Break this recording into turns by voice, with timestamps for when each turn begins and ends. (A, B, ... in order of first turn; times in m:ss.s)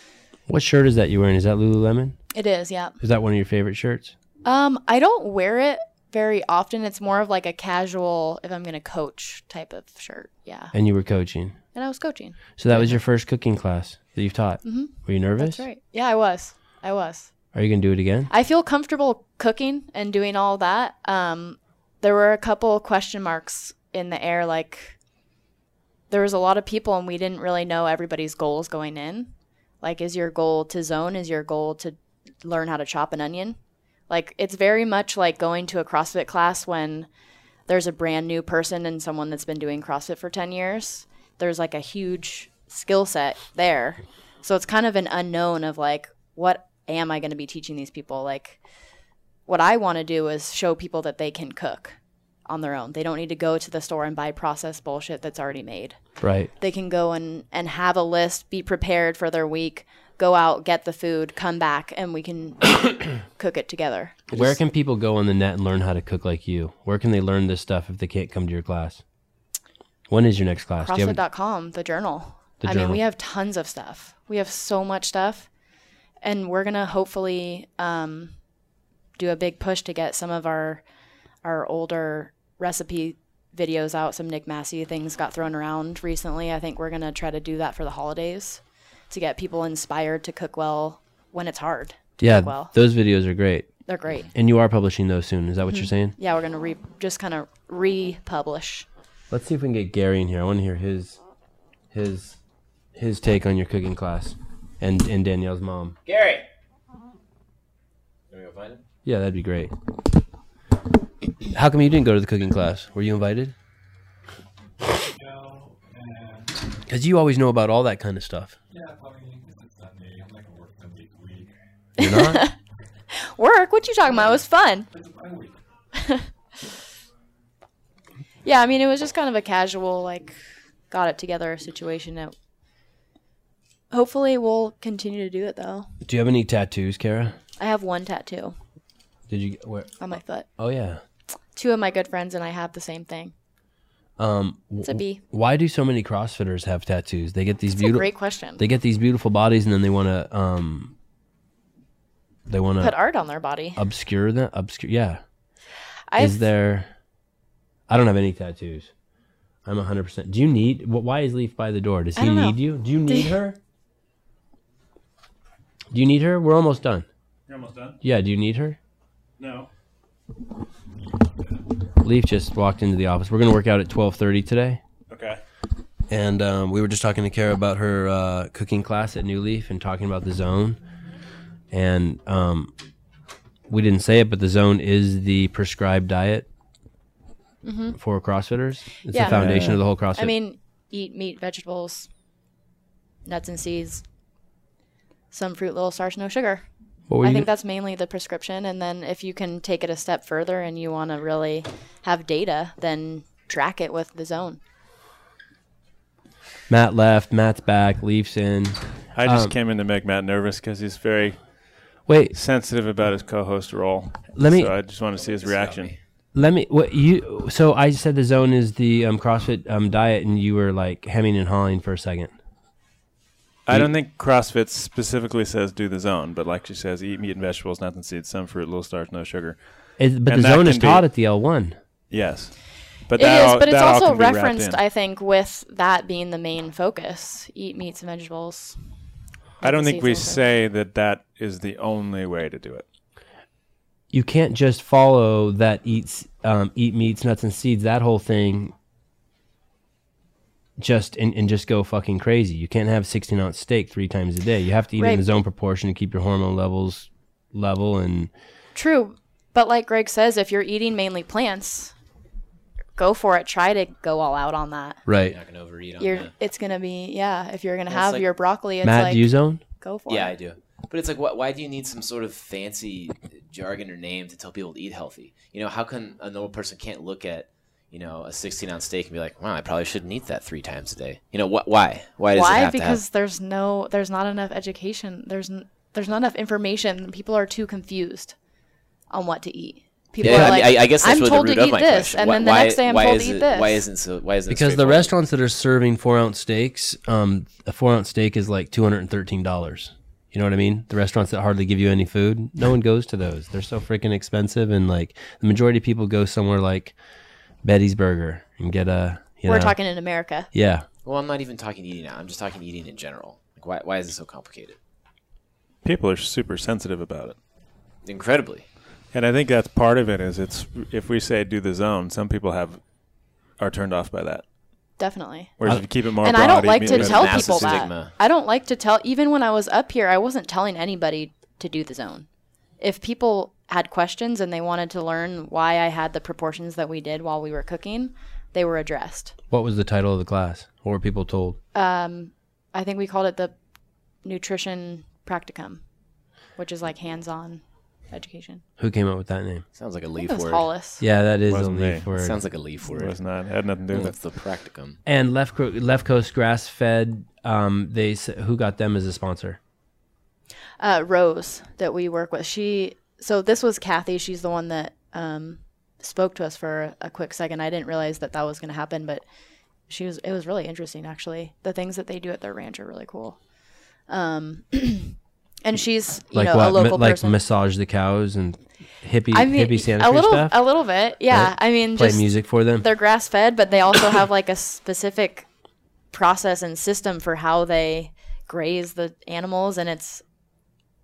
0:00.5-0:02.2 A
0:02.3-0:02.9 B
0:03.0-0:04.1 A
0:04.4-0:10.7 B
0:10.7-0:11.6 A
0:11.7-0:12.6 B
0:12.6-0:15.6 A
0:14.6-0:17.3 B
0:17.5-0:18.3 A
0:18.3-0:24.9 B
0:26.1-0:29.3 B
0:29.8-0:33.6 B
0:34.1-0:37.1 B
0:37.7-0:48.6 B
0:49.5-0:56.0 B
0:56.2-0:56.5 A
0:56.6-1:04.6 B
1:04.3-1:09.0 A
1:10.1-1:11.2 A
1:10.8-1:15.5 B
1:12.6-1:13.0 A
1:16.2-1:18.3 B
1:19.2-1:20.8 B
1:21.4-1:32.7 B
1:32.2-1:33.7 A
1:33.9-1:34.3 B
1:34.3-1:36.1 A
1:35.6-1:38.8 B
1:39.3-1:41.2 A
1:41.9-1:42.4 A
1:42.9-1:46.0 A
1:46.0-1:46.4 C
1:48.3-1:48.8 C
1:49.0-1:49.7 A
1:51.5-1:53.5 A
1:55.0-1:56.6 D
1:56.9-1:58.5 A
1:58.7-2:01.5 D
2:02.0-2:02.5 A
2:02.0-2:02.5 B
2:03.2-2:04.9 B
2:04.9-2:05.6 D
2:05.9-2:06.2 B
2:08.4-2:10.4 B
2:10.9-2:12.3 B
2:13.9-2:15.9 B
2:16.0-2:17.4 A
2:17.6-2:18.6 B
2:19.3-2:20.0 A
2:20.0-2:20.5 B
2:20.6-2:21.0 A
2:21.6-2:23.3 B
2:24.2-2:30.9 A
2:24.8-2:25.2 B
2:27.8-2:28.6 B
2:32.5-2:32.9 A
2:32.8-2:33.8 B
2:33.8-2:35.2 A
2:36.1-2:36.4 B
2:36.2-2:36.9 A
2:37.9-2:38.9 A
2:39.6-2:43.6 A
2:42.2-2:43.4 B
2:45.9-2:47.0 A
2:47.5-2:48.0 E
2:48.0-2:48.8 A
2:49.4-2:49.7 E
2:51.0-2:51.6 D
2:52.0-2:54.8 A
2:55.1-2:55.4 E
2:56.1-3:00.8 A
3:01.7-3:02.7 A
3:03.7-3:06.5 A
3:07.6-3:08.0 B
3:08.0-3:10.3 A
3:09.1-3:09.4 B
3:09.4-3:09.8 C
3:10.1-3:12.1 B
3:13.2-3:14.0 B
3:15.3-3:16.6 B
3:17.1-3:17.5 A
3:17.2-3:24.6 B
3:26.7-3:29.5 A
3:29.1-3:31.5 E
3:32.0-3:32.3 A
3:32.3-3:36.0 E
3:34.3-3:34.7 A
3:35.1-3:36.0 C
3:36.3-3:42.3 A
3:43.7-3:49.6 E
3:50.0-3:51.8 A
3:50.2-3:51.1 E
3:52.1-3:52.6 E
3:53.1-3:54.8 E
3:53.2-3:58.8 B
3:59.6-4:00.4 B
3:59.6-4:02.8 E
4:04.1-4:08.7 A
4:10.8-4:18.3 A
4:15.0-4:15.3 B
4:18.7-4:21.9 B
4:23.0-4:25.0 B
4:25.0-4:25.4 A
4:25.3-4:26.3 C
4:26.0-4:30.3 B
4:27.9-4:28.2 C
4:28.8-4:29.6 A
4:30.1-4:43.0 C
4:42.3-4:48.3 B
4:49.1-4:53.8 B
4:50.2-4:55.1 C
4:50.2-4:50.6 A
4:54.5-5:07.0 A
5:07.6-5:09.8 A
5:09.5-5:10.5 B
5:10.5-5:10.8 A
5:11.0-5:14.8 C
5:15.8-5:17.4 E
5:18.0-5:18.6 C
5:19.1-5:22.8 E
5:23.6-5:24.4 E
5:25.0-5:25.6 B
5:25.6-5:27.9 E
5:26.2-5:32.2 B
5:26.8-5:28.1 C
5:32.8-5:39.3 B
5:39.5-5:41.6 A
5:41.7-5:43.5 B
5:44.2-5:45.8 B
5:46.6-5:48.6 B
5:48.8-5:49.6 A
5:49.7-5:50.7 C
5:50.2-5:51.0 B
5:51.0-5:52.4 A
5:51.5-5:52.0 E
5:52.2-5:53.2 C
5:52.9-5:54.1 E
5:53.9-5:55.0 C
5:55.0-5:59.6 A
6:00.8-6:09.2 B
6:09.9-6:13.4 B
6:14.1-6:17.4 B
6:16.3-6:20.6 A
6:19.3-6:25.4 B
6:21.3-6:22.9 A
6:26.1-6:30.2 B